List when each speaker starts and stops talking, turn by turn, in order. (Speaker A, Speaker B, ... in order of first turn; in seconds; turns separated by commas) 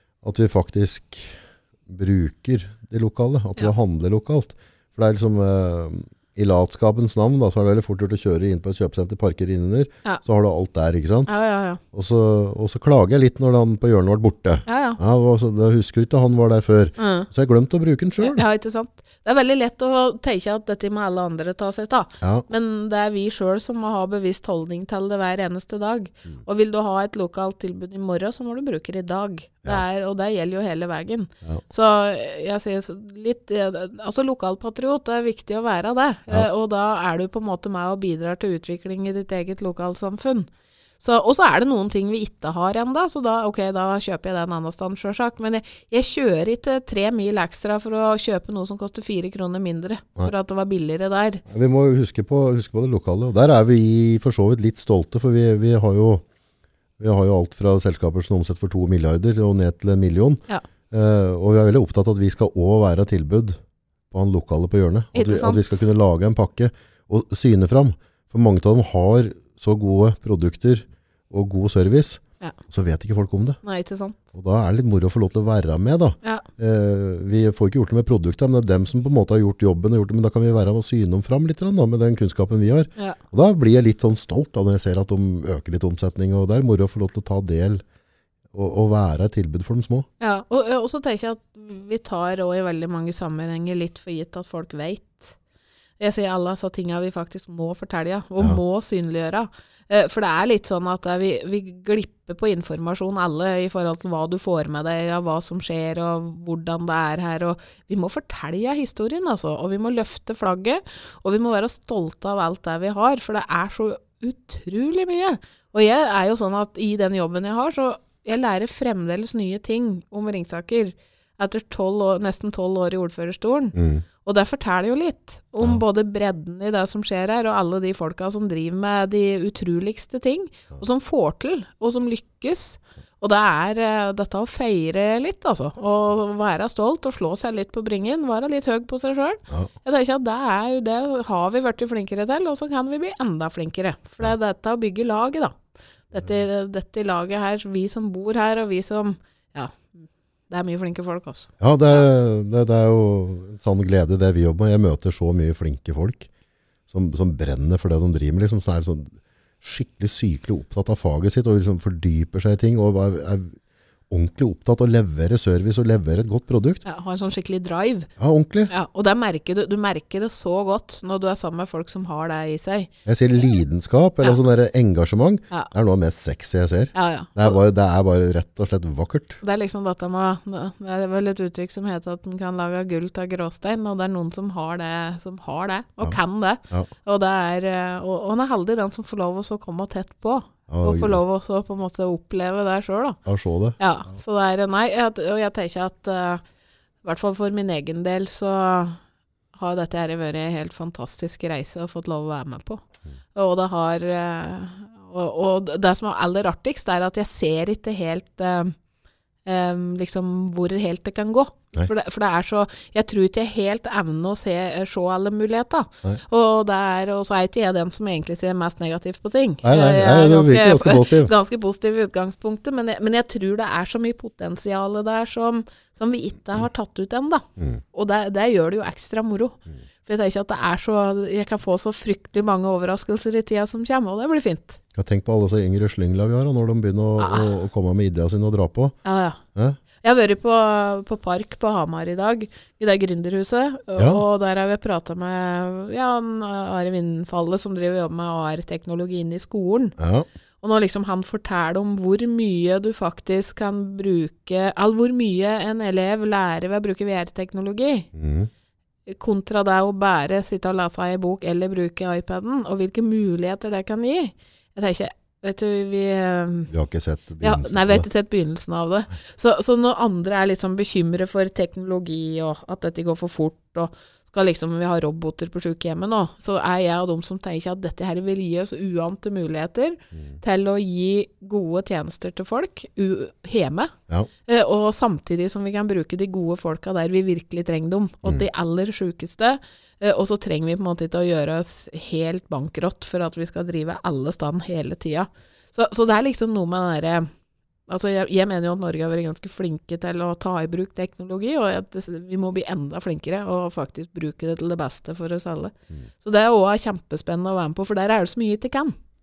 Speaker A: 0.2-11.3, Speaker B: 11.3-11.8, Speaker A: 11.9-18.4, Speaker B: 14.7-15.0, Speaker B: 17.0-17.3, Speaker B: 18.2-40.5, Speaker A: 22.2-22.5, Speaker B: 41.0-51.4, Speaker A: 51.5-56.2, Speaker A: 57.0-63.6, Speaker A: 64.1-73.6, Speaker B: 65.1-65.9, Speaker B: 73.6-74.2, Speaker A: 74.3-87.8, Speaker A: 88.5-90.1, Speaker B: 90.2-95.4, Speaker B: 96.0-152.1, Speaker A: 123.8-124.0, Speaker A: 151.6-156.3, Speaker A: 156.9-163.6, Speaker A: 164.1-166.8, Speaker B: 166.8-168.1, Speaker A: 168.2-168.7, Speaker B: 168.7-172.9, Speaker A: 173.1-179.4, Speaker B: 176.9-177.6, Speaker B: 179.4-193.2, Speaker A: 190.7-191.2, Speaker A: 193.2-194.2, Speaker B: 193.8-196.4, Speaker B: 197.0-199.0, Speaker B: 199.6-202.8, Speaker B: 203.3-208.8, Speaker B: 209.4-234.8, Speaker A: 219.6-221.3, Speaker A: 235.0-239.0, Speaker B: 237.2-237.5, Speaker B: 239.0-239.4, Speaker B: 240.0-249.9, Speaker A: 244.0-244.2, Speaker A: 250.0-250.3, Speaker B: 250.6-258.1, Speaker A: 258.1-258.5, Speaker B: 259.1-266.7, Speaker A: 266.7-268.1, Speaker B: 267.4-283.9, Speaker B: 284.5-297.3, Speaker B: 297.9-309.0